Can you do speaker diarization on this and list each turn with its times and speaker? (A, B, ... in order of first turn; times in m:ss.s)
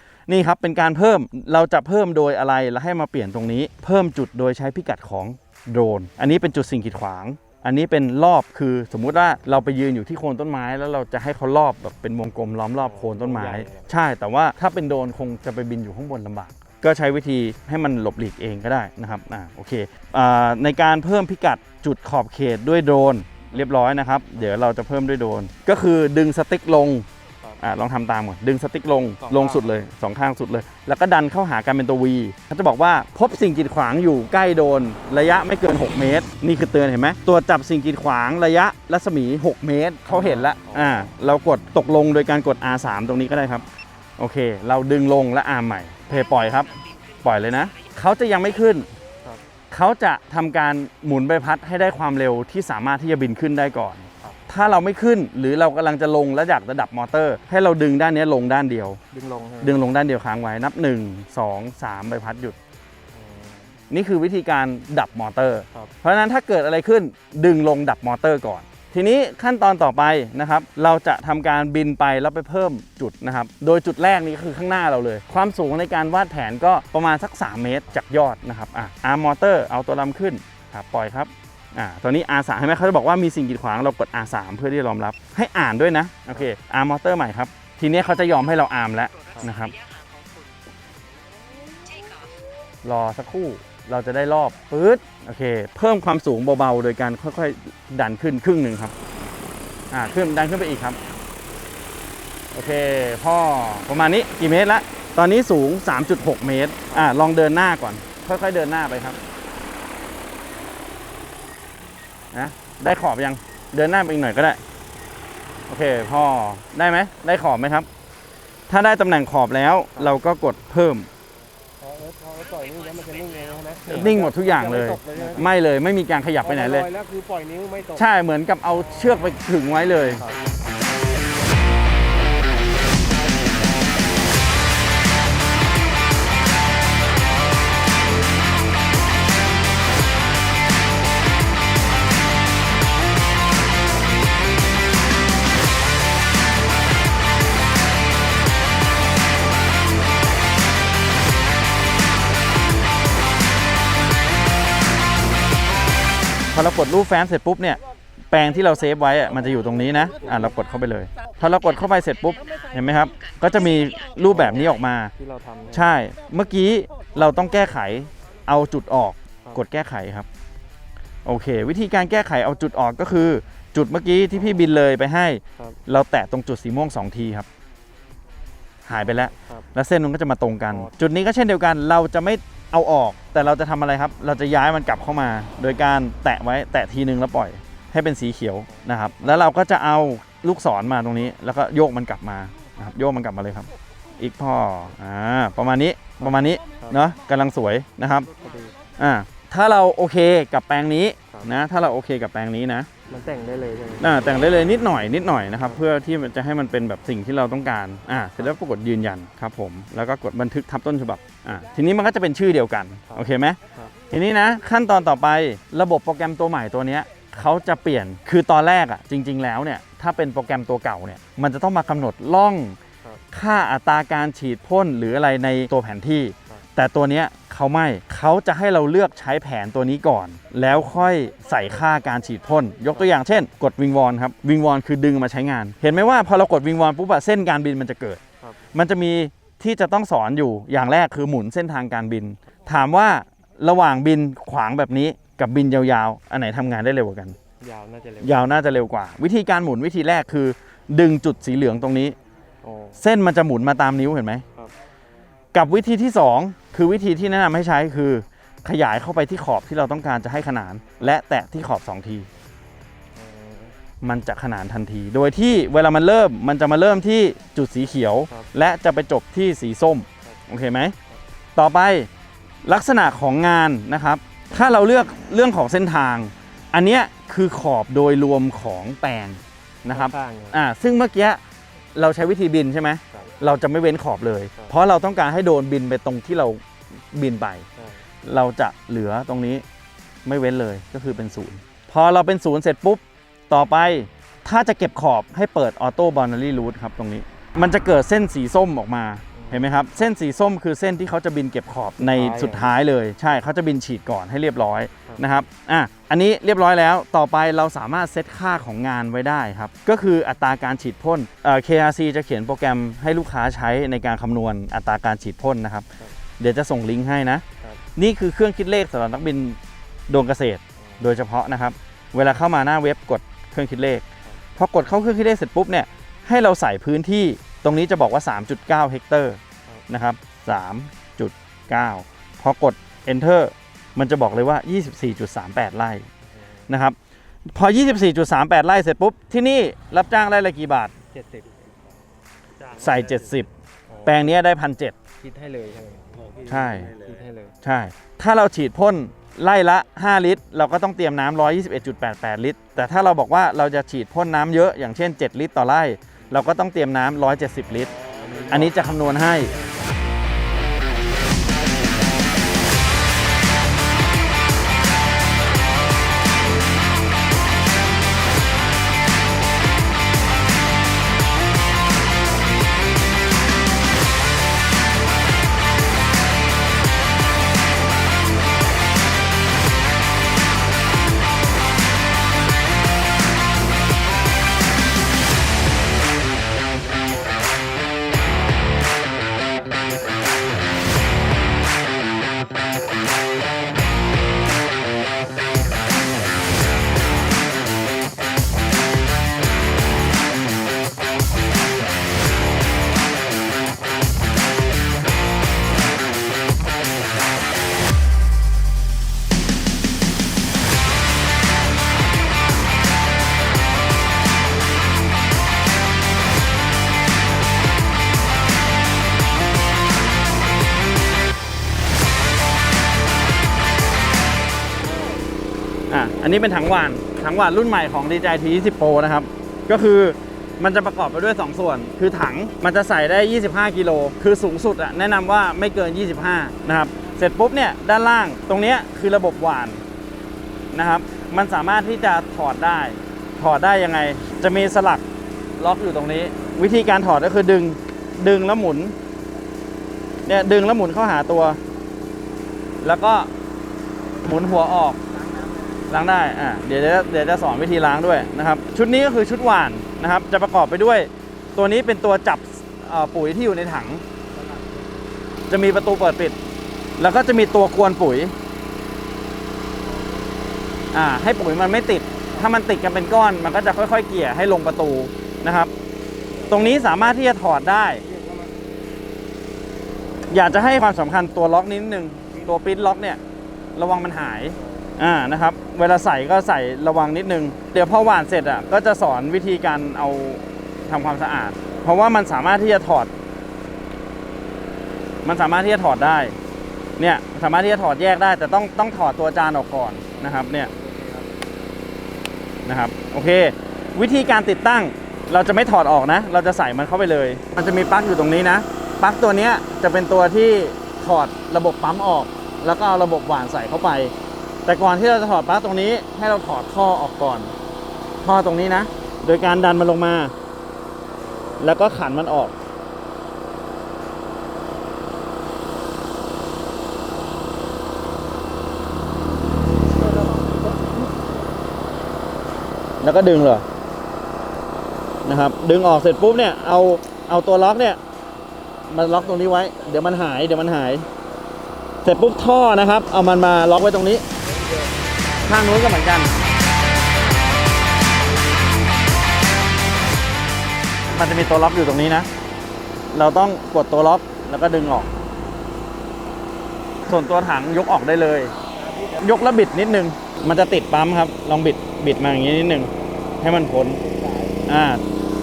0:00.3-0:27.1 A
0:12.8-0:14.0 B
0:27.6-0:43.7 A
0:29.2-0:29.8 B
0:40.1-0:41.0 B
0:44.2-0:48.9 A
0:46.8-0:47.2 C
0:49.7-0:59.0 A
0:59.1-0:59.8 B
0:59.6-1:02.6 A
1:03.1-1:03.8 B
1:03.9-1:29.8 A
1:29.2-1:30.6 C
1:31.8-1:32.4 C
1:32.8-1:38.9 A
1:39.9-1:41.0 A
1:42.5-1:49.2 A
1:52.3-1:54.6 A
1:55.7-1:57.9 A
1:58.7-2:01.1 A
2:01.8-2:05.5 B
2:03.9-2:06.9 A
2:06.4-2:08.0 B
2:08.0-2:10.2 A
2:36.5-2:37.8 A
2:38.3-2:45.1 A
2:40.3-2:40.5 B
2:45.2-2:46.0 B
2:45.7-2:50.3 A
2:51.2-2:57.5 A
2:58.9-3:18.3 A
2:59.0-2:59.7 B
3:08.7-3:09.4 B
3:16.2-3:17.0 B
3:18.4-3:18.8 B
3:19.0-3:22.9 A
3:23.1-3:24.2 B
3:24.0-3:33.6 A
3:33.1-3:33.9 B
3:34.1-3:42.8 A
3:43.3-3:58.2 A
3:58.7-4:07.4 A
4:07.6-4:08.5 B
4:08.2-4:12.2 A
4:12.6-4:13.0 B
4:13.0-4:14.4 A
4:15.5-4:22.3 A
4:23.2-4:23.8 B
4:24.0-4:31.0 A
4:31.6-4:32.1 A
4:32.6-4:41.4 A
4:39.9-4:40.6 B
4:42.0-4:46.6 A
4:47.1-4:47.6 A
4:47.8-4:48.0 B
4:48.2-4:49.6 A
4:50.2-5:15.9 A
4:59.4-4:59.8 B
5:02.0-5:02.8 B
5:16.4-5:17.4 A
5:18.0-5:24.0 A
5:20.8-5:21.1 B
5:24.6-5:36.1 A
5:36.7-5:37.0 A
5:37.5-5:40.9 A
5:41.1-5:41.9 B
5:42.6-5:44.4 B
5:42.8-5:43.5 A
5:44.0-5:45.0 A
5:45.2-5:47.6 B
5:46.5-5:47.0 A
5:47.6-5:58.0 A
5:58.0-5:59.9 B
5:58.5-5:59.6 A
7:05.9-7:19.8 A
7:20.7-7:25.0 A
7:25.6-7:29.0 A
7:30.3-7:31.6 A
7:32.8-7:33.3 A
7:34.2-7:35.0 A
7:35.9-7:44.0 A
7:44.4-7:44.9 B
7:45.5-7:46.4 A
7:47.0-7:48.3 A
7:50.0-7:50.3 B
7:50.9-7:55.7 A
7:56.2-7:57.2 B
7:56.5-7:58.0 A
7:58.0-7:58.6 B
8:00.3-8:03.2 A
8:03.8-8:13.1 A
8:15.2-8:16.4 A
8:17.0-8:20.7 A
8:20.2-8:21.4 B
8:22.7-8:34.1 A
8:34.6-8:37.6 A
8:38.2-8:40.3 A
8:41.6-8:42.6 A
8:50.0-8:50.9 A
8:53.0-8:53.6 A
8:55.2-8:58.0 A
8:58.9-9:01.1 A
9:02.0-9:04.2 A
9:05.4-9:06.4 A
9:11.1-9:12.3 A
9:13.1-9:15.1 A
9:17.1-9:18.6 A
9:18.8-9:19.2 B
9:19.1-9:25.0 A
9:24.1-9:24.4 B